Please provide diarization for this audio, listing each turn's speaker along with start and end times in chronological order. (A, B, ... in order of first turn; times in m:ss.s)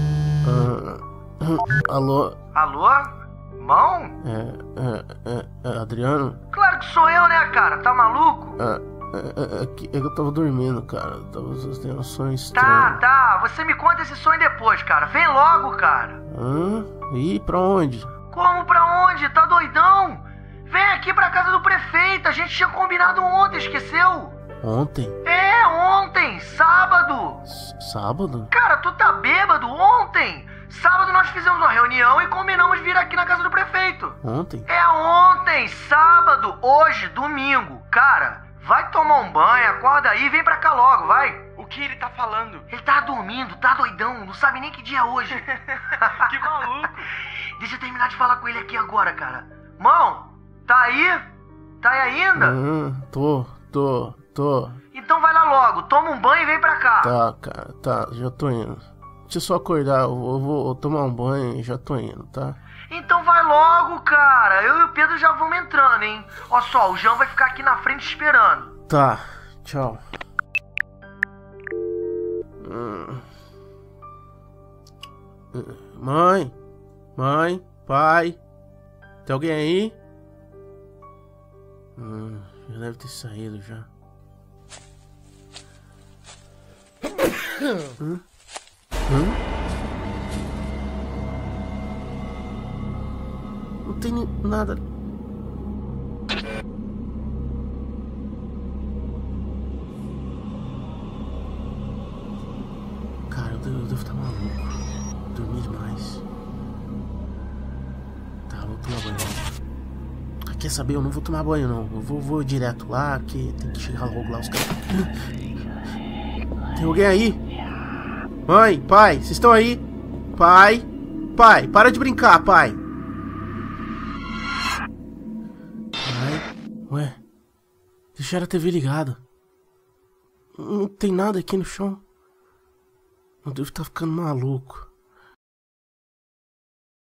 0:00.4-0:02.4 A
0:02.6-0:04.1 B
0:04.2-0:06.4 A
0:06.5-0:08.6 B
0:08.6-0:13.0 A
0:12.6-0:16.2 B
0:16.3-0:18.1 A
0:18.3-0:24.4 B
0:24.6-0:25.2 A
0:25.2-0:27.4 B
0:27.5-0:28.5 A
0:28.5-0:41.4 B
0:34.2-0:34.7 A
0:41.6-0:42.7 C
0:42.7-0:45.4 B
0:45.8-0:47.1 C
0:47.6-0:51.2 B
0:51.8-0:52.6 B
0:52.4-0:54.8 A
0:54.9-0:57.1 B
0:57.0-1:02.6 A
1:02.9-1:08.7 B
1:08.9-1:10.0 A
1:12.6-1:13.2 A
1:15.5-1:16.5 A
1:17.2-1:18.4 A
1:19.2-1:20.0 A
1:22.0-1:23.9 A
1:28.0-1:28.2 A
1:29.1-1:29.4 A
1:33.8-1:34.8 A
1:43.3-1:44.8 A
1:45.3-1:46.2 A
1:48.5-1:49.6 A
1:50.4-1:55.2 A
1:56.8-1:57.4 A
1:58.5-2:02.8 A
2:06.0-2:07.2 A
2:08.2-2:09.2 A
2:10.6-2:12.0 A
2:13.4-2:14.9 A